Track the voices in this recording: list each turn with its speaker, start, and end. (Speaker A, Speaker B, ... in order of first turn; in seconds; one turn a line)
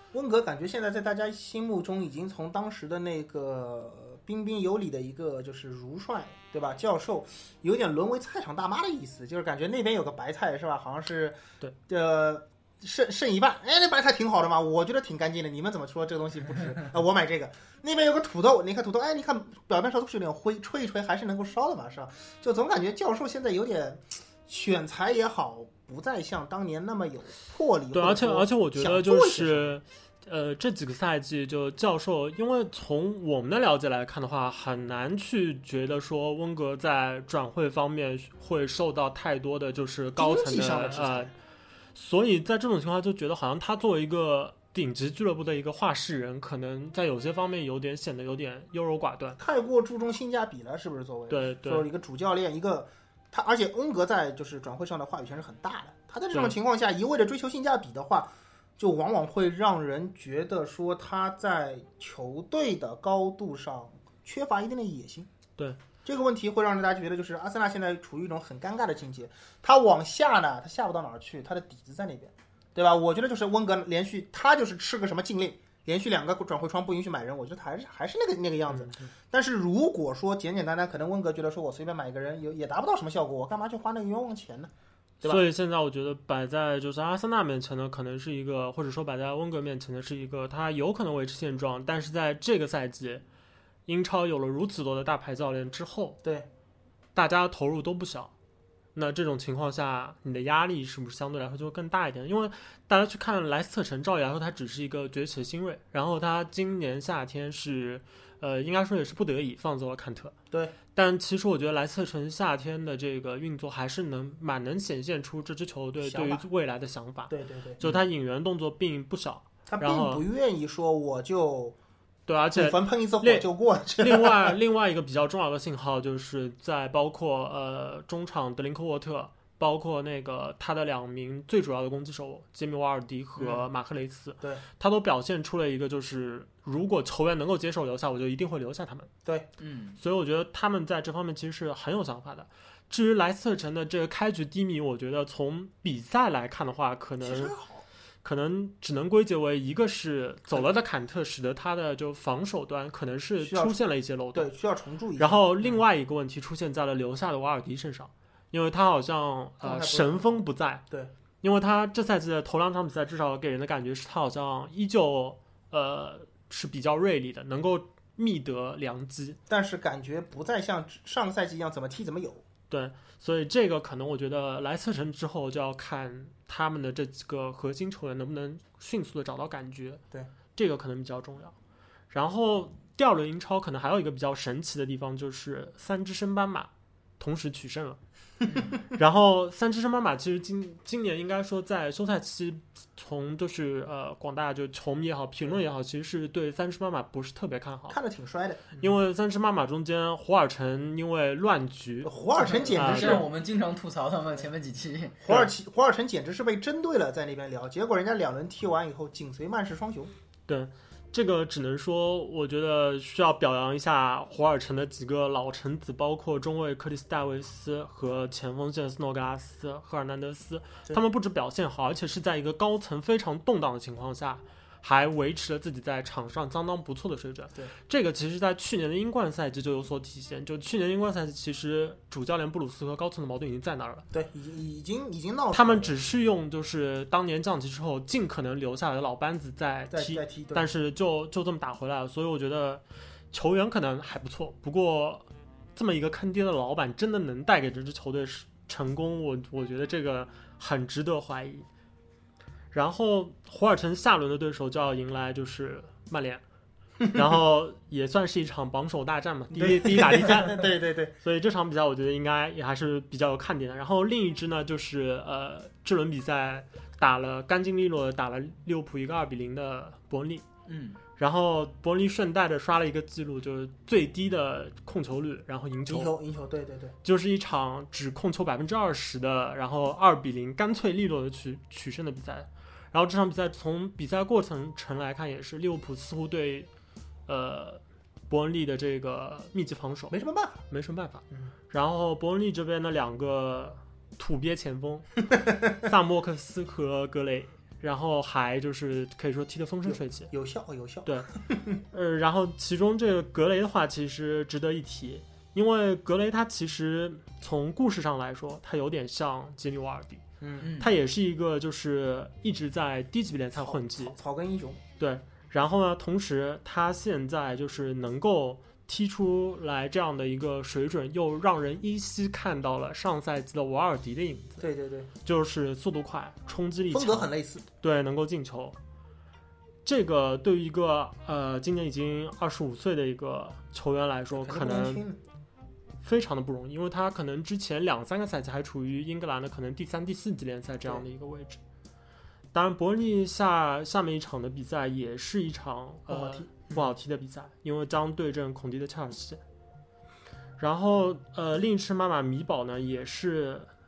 Speaker A: 0.1-29.8
Speaker B: 27.9-41.3
Speaker A: 40.2-41.3
Speaker B: 42.0-49.4
Speaker A: 49.4-65.3
Speaker B: 51.3-51.9
Speaker A: 66.0-84.7
Speaker B: 78.7-79.1
Speaker B: 85.2-93.2
Speaker B: 93.9-96.2
Speaker B: 97.2-98.3
Speaker B: 99.0-110.3
Speaker A: 110.5-110.8
Speaker B: 110.9-120.2
Speaker A: 116.0-116.4
Speaker A: 117.3-117.9
Speaker A: 119.7-121.8
Speaker B: 122.3-139.1
Speaker A: 122.5-124.6
Speaker A: 133.4-133.6
Speaker C: 139.6-140.0
Speaker B: 140.0-147.5
Speaker A: 147.2-147.8
Speaker B: 148.2-154.5
Speaker A: 153.4-153.8
Speaker A: 154.3-155.8
Speaker B: 155.2-160.8
Speaker A: 159.6-161.1
Speaker B: 161.4-169.4
Speaker A: 169.5-172.4
Speaker B: 172.7-180.0
Speaker B: 180.6-181.5
Speaker B: 182.1-188.0
Speaker B: 188.8-198.0
Speaker A: 197.9-198.8
Speaker B: 198.8-202.1
Speaker A: 202.0-203.3
Speaker C: 202.3-205.2
Speaker B: 202.7-203.3
Speaker A: 205.2-210.1
Speaker B: 210.5-234.1
Speaker A: 234.1-235.9
Speaker B: 235.5-251.7
Speaker A: 239.9-240.7
Speaker B: 252.7-256.4
Speaker B: 257.1-260.7
Speaker A: 259.5-261.1
Speaker B: 261.2-270.4
Speaker C: 270.7-271.0
Speaker B: 271.2-276.1
Speaker A: 275.9-276.9
Speaker B: 277.0-286.7
Speaker B: 287.3-290.2
Speaker A: 290.1-290.6
Speaker B: 290.7-295.2
Speaker A: 295.4-295.7
Speaker B: 295.8-300.3
Speaker A: 299.9-301.8
Speaker B: 301.9-314.2
Speaker A: 310.4-310.7
Speaker C: 310.6-310.9
Speaker A: 313.6-314.8
Speaker B: 315.0-324.6
Speaker A: 324.6-325.1
Speaker B: 325.2-327.3
Speaker A: 326.9-327.7
Speaker B: 327.8-328.8
Speaker B: 329.9-335.0
Speaker A: 334.3-335.2
Speaker B: 336.0-341.6
Speaker B: 342.5-349.4
Speaker A: 346.1-346.9
Speaker B: 350.6-353.7